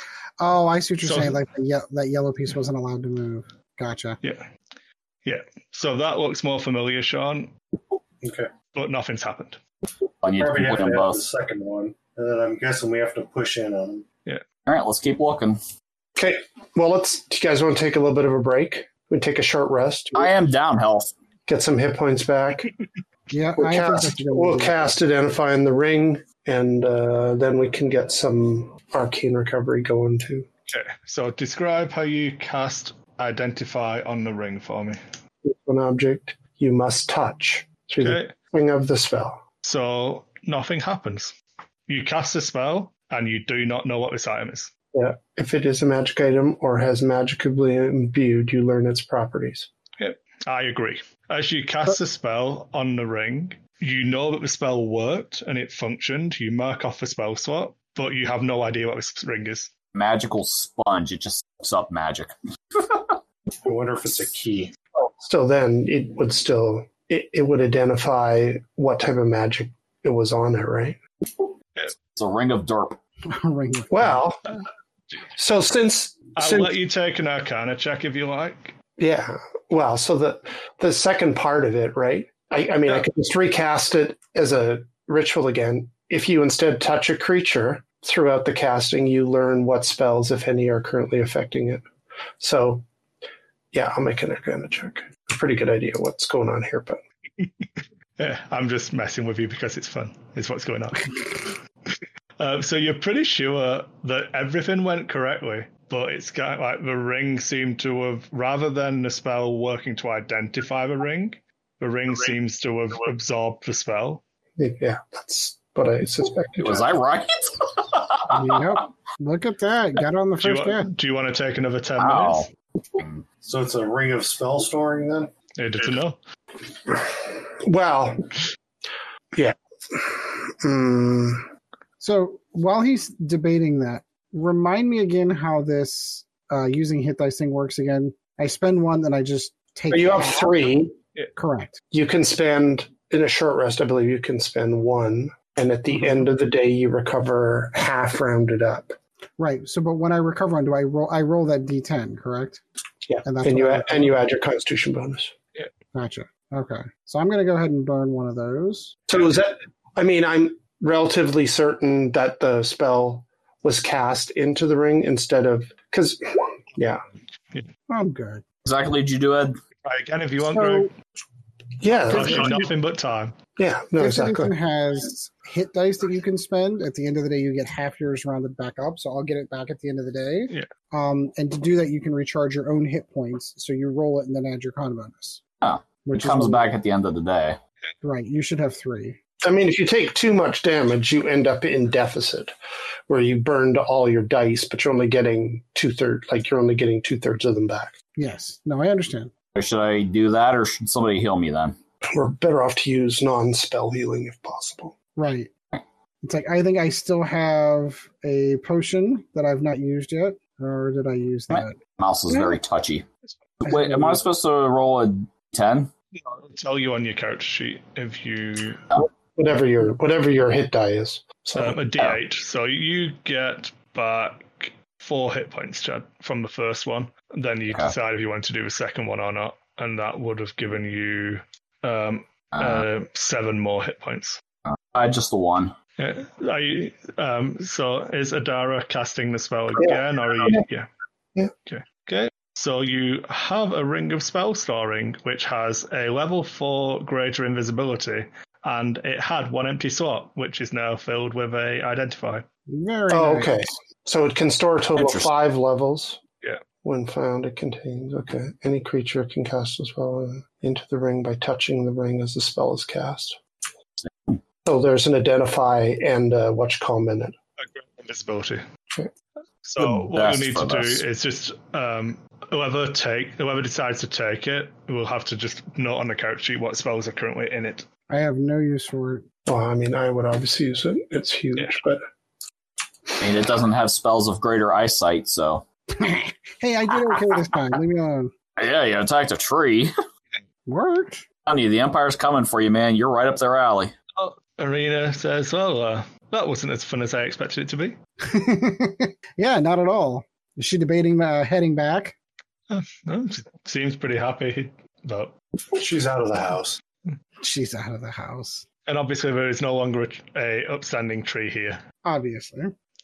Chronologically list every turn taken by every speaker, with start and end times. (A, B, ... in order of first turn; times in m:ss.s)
0:00.4-0:04.2 A
0:01.0-0:01.4 B
0:04.2-0:04.5 B
0:05.2-0:07.5 B
0:08.2-0:08.5 C
0:08.7-0:09.6 B
0:10.2-0:11.3 D
0:10.4-0:14.0 C
0:14.6-0:15.6 D
0:16.2-0:20.3 E
0:20.1-0:21.1 D
0:21.5-0:22.7 E
0:23.3-0:24.9 A
0:23.6-0:30.5 E
0:30.7-0:35.0 B
0:35.4-0:39.4 E
0:38.0-0:38.3 B
0:39.6-0:41.3 B
0:41.9-0:44.7 B
0:44.9-0:49.7 E
0:50.0-0:59.7 B
0:59.9-1:03.0 D
1:03.6-1:04.7 C
1:05.0-1:11.0 E
1:12.1-1:13.0 D
1:13.3-1:14.2 A
1:13.9-1:14.4 E
1:15.4-1:16.7 E
1:16.4-1:18.7 B
1:19.0-1:31.9 E
1:32.4-1:32.9 E
1:33.7-1:37.0 E
1:37.4-1:37.6 B
1:38.2-1:54.2 B
1:54.6-1:56.9 E
1:56.6-1:58.6 D
1:58.3-2:00.9 A
2:00.4-2:02.5 B
2:02.0-2:03.2 D
2:03.4-2:05.3 C
2:05.6-2:06.2 B
2:06.9-2:08.2 E
2:09.3-2:11.5 E
2:12.0-2:20.6 A
2:19.9-2:20.9 E
2:21.4-2:21.8 A
2:21.9-2:29.0 E
2:25.9-2:26.3 A
2:29.4-2:32.6 A
2:33.1-2:35.3 E
2:33.2-2:34.2 A
2:35.9-2:39.0 A
2:39.1-2:47.0 E
2:47.9-2:48.4 A
2:48.6-2:49.6 D
2:49.8-2:50.9 B
2:50.5-2:50.9 A
2:51.8-2:52.6 E
2:52.1-2:53.4 B
2:52.2-2:52.5 A
2:53.6-2:54.5 E
2:54.0-3:05.4 A
3:05.6-3:07.6 D
3:06.0-3:06.7 A
3:08.0-3:09.2 A
3:09.4-3:12.5 E
3:13.1-3:17.9 E
3:18.2-3:19.3 A
3:19.6-3:21.8 D
3:22.1-3:25.0 E
3:25.1-3:25.5 A
3:26.2-3:31.8 A
3:31.5-3:33.0 D
3:32.3-3:32.6 A
3:33.6-3:35.9 D
3:33.7-3:34.2 A
3:36.1-3:38.8 B
3:38.9-3:41.8 E
3:41.6-3:54.4 B
3:52.6-3:52.8 D
3:54.7-3:55.7 D
3:56.0-4:00.9 B
3:59.8-4:00.6 E
4:01.6-4:12.4 B
4:12.7-4:13.6 A
4:13.1-4:16.2 E
4:15.0-4:15.3 D
4:16.8-4:23.4 E
4:24.6-4:27.4 E
4:27.6-4:28.6 B
4:29.6-4:37.9 B
4:29.8-4:31.0 D
4:38.1-4:39.3 A
4:39.5-4:42.0 E
4:43.2-4:45.6 D
4:45.9-4:48.3 A
4:48.6-4:49.9 D
4:50.6-4:51.2 A
4:51.4-4:53.9 D
4:54.2-4:58.0 B
4:58.2-5:02.2 A
5:02.7-5:05.3 B
5:05.7-5:06.8 C
5:07.4-5:08.6 A
5:08.9-5:11.8 B
5:12.0-5:12.7 A